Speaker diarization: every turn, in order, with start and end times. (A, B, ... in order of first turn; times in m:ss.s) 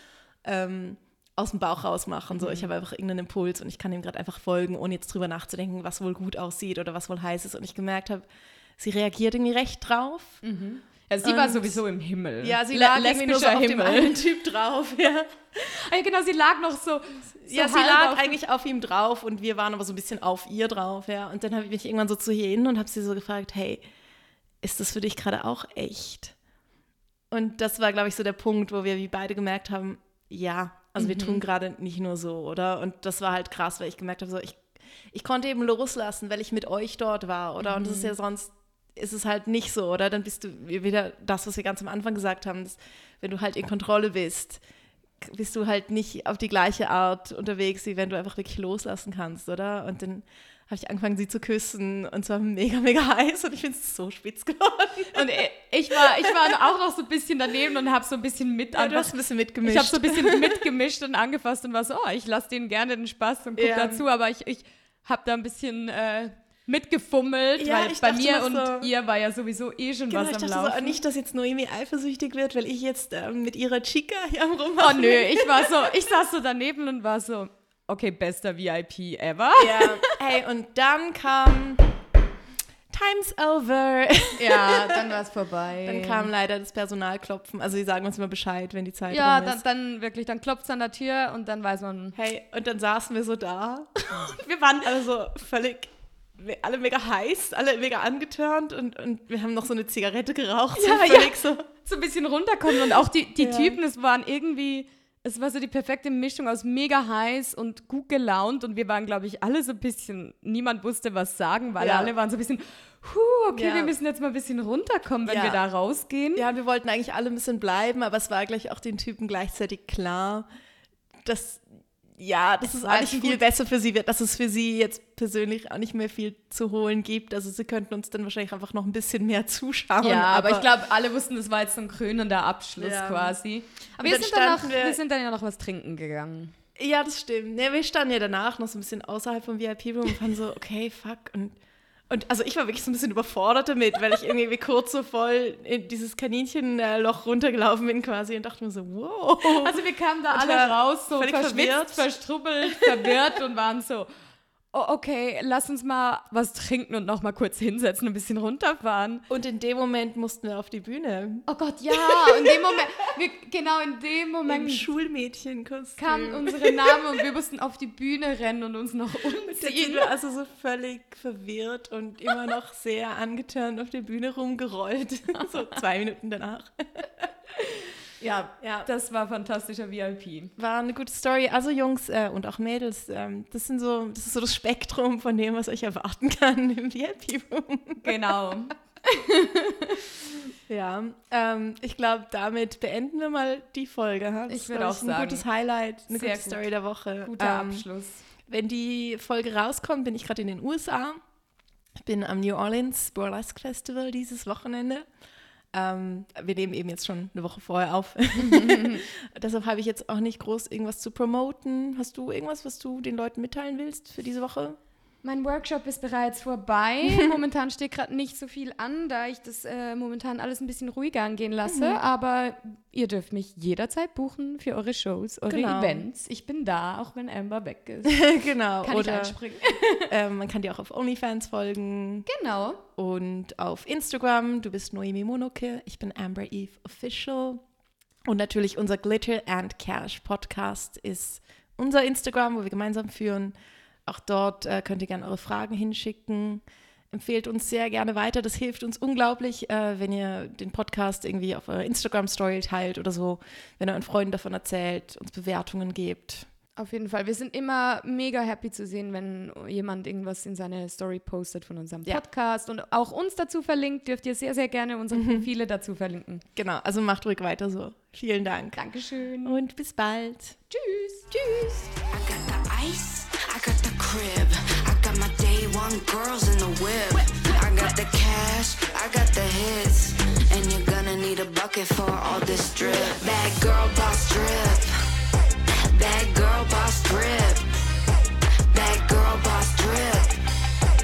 0:00.4-0:08.3 A
0:02.3-0:02.7 B
0:08.8-0:10.4 A
0:10.4-0:14.2 B
0:11.2-0:11.8 A
0:12.4-0:15.4 A
0:15.6-0:18.4 B
0:17.4-0:23.8 A
0:24.6-0:26.4 A
0:27.3-0:44.6 A
0:31.0-0:31.4 B
0:37.6-0:38.1 B
0:45.2-0:55.4 A
0:55.1-1:11.0 B
0:55.9-0:56.6 A
0:58.7-1:00.6 A
1:03.6-1:04.0 A
1:07.6-1:08.9 A
1:10.1-1:15.9 A
1:14.8-1:20.2 B
1:19.6-1:22.0 A
1:22.9-1:25.1 A
1:24.4-1:26.3 B
1:25.8-1:29.6 A
1:29.1-1:32.2 B
1:32.2-1:41.7 A
1:34.2-1:34.9 B
1:40.7-1:56.4 B
1:43.4-1:43.8 A
1:51.8-1:52.1 A
1:53.6-1:53.9 A
1:55.2-1:55.6 A
1:56.4-2:00.5 A
2:01.2-2:01.6 A
2:02.2-2:10.7 A
2:02.8-2:03.4 B
2:10.0-2:16.6 B
2:12.8-2:13.4 A
2:14.0-2:15.0 A
2:16.8-2:21.6 A
2:22.1-2:32.1 A
2:29.4-2:34.1 B
2:32.7-2:33.2 A
2:34.7-2:39.2 B
2:39.3-2:43.0 A
2:41.5-2:44.9 B
2:44.5-2:47.2 A
2:46.0-2:50.1 B
2:49.6-2:57.3 A
2:58.2-3:00.5 B
2:58.6-2:58.9 A
3:00.6-3:08.3 A
3:08.0-3:10.0 B
3:10.7-3:17.9 A
3:14.5-3:15.4 B
3:16.1-3:16.6 B
3:17.3-3:18.2 B
3:18.5-3:21.2 A
3:22.0-3:25.1 A
3:25.7-3:34.8 A
3:28.4-3:29.0 B
3:35.2-3:48.2 B
3:41.7-3:42.0 A
3:45.5-3:46.0 A
3:48.1-3:49.4 A
3:48.8-3:50.1 B
3:50.0-3:52.3 A
3:52.3-3:52.8 B
3:53.0-3:57.6 A
3:58.3-4:03.6 A
4:04.1-4:16.5 A
4:16.8-4:26.4 B
4:25.1-4:25.5 A
4:26.6-4:28.8 A
4:28.8-4:29.6 B
4:29.4-4:30.6 A
4:30.7-4:31.9 B
4:32.1-4:45.0 C
4:45.8-4:47.7 C
4:48.7-4:50.4 C